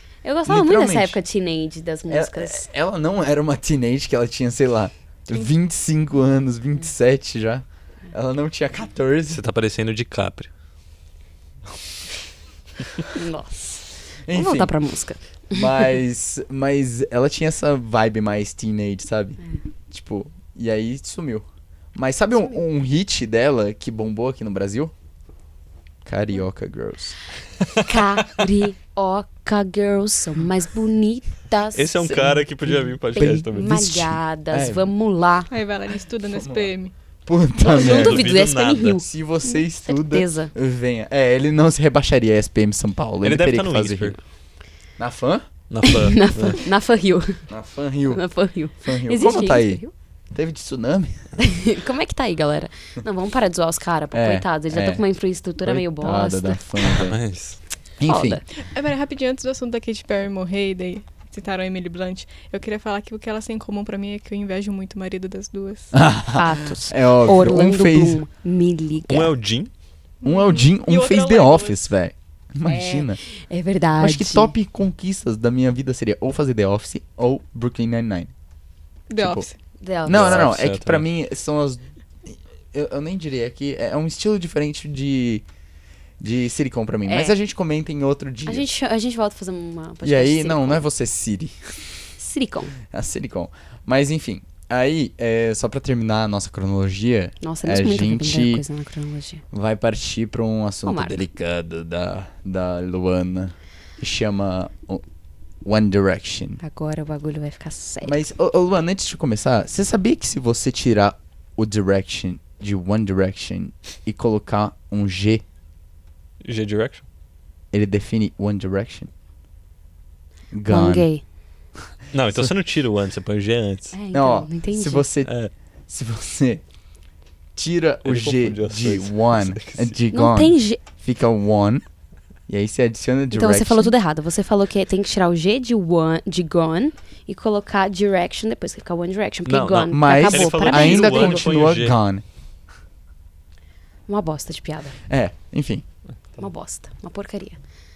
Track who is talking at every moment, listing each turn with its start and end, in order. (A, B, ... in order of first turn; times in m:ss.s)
0:00.2-0:02.7 A
0:00.4-0:01.2 B
0:02.1-0:09.4 B
0:09.3-0:10.5 C
0:13.1-0:15.9 A
0:14.2-0:14.7 B
0:15.5-0:19.4 B
0:19.9-0:24.9 B
0:26.0-0:27.2 B
0:27.8-0:32.4 A
0:31.7-0:34.0 C
0:33.1-0:35.5 A
0:33.2-0:34.9 B
0:35.5-0:36.9 D
0:36.3-0:36.7 B
0:37.2-0:38.4 B
0:37.6-0:39.0 A
0:37.6-0:39.0 C
0:39.0-0:44.2 B
0:39.8-0:40.5 A
0:43.2-0:44.2 C
0:45.0-0:45.5 B
0:45.7-0:46.6 C
0:45.8-0:47.5 A
0:47.5-0:48.2 B
0:48.1-0:49.9 A
0:48.8-0:49.8 B
0:50.3-0:51.3 B
0:51.4-0:57.1 A
0:54.1-0:55.0 B
0:55.6-0:57.2 B
0:56.9-0:57.6 C
0:58.0-0:58.4 B
0:58.0-0:58.4 A
0:58.6-1:05.9 D
1:05.9-1:08.2 B
1:06.3-1:09.3 A
1:09.1-1:09.7 C
1:10.2-1:11.8 D
1:10.2-1:13.2 B
1:12.6-1:14.5 A
1:14.0-1:18.3 B
1:19.1-1:19.6 D
1:19.2-1:19.5 B
1:19.8-1:20.5 A
1:20.0-1:25.4 B
1:20.1-1:21.0 C
1:26.2-1:28.7 B
1:27.1-1:27.4 A
1:28.4-1:30.8 A
1:30.0-1:32.0 B
1:32.2-1:32.7 A
1:32.8-1:38.6 B
1:37.4-1:39.4 A
1:39.5-1:45.0 B
1:40.8-1:41.2 A
1:45.6-1:46.6 B
1:46.6-1:48.2 A
1:48.0-1:55.4 B
1:56.4-1:57.0 C
1:57.7-1:59.1 B
2:00.5-2:01.1 B
2:00.7-2:01.2 A
2:02.1-2:04.0 C
2:03.9-2:05.1 A
2:04.1-2:05.3 B
2:05.2-2:05.5 C
2:05.9-2:06.6 B
2:07.6-2:11.8 B
2:08.0-2:09.9 C
2:10.1-2:10.8 A
2:12.5-2:13.9 B
2:13.3-2:21.4 A
2:19.4-2:22.0 C
2:19.8-2:22.2 B
2:24.1-2:25.0 A
2:25.0-2:25.8 B
2:26.4-2:27.6 A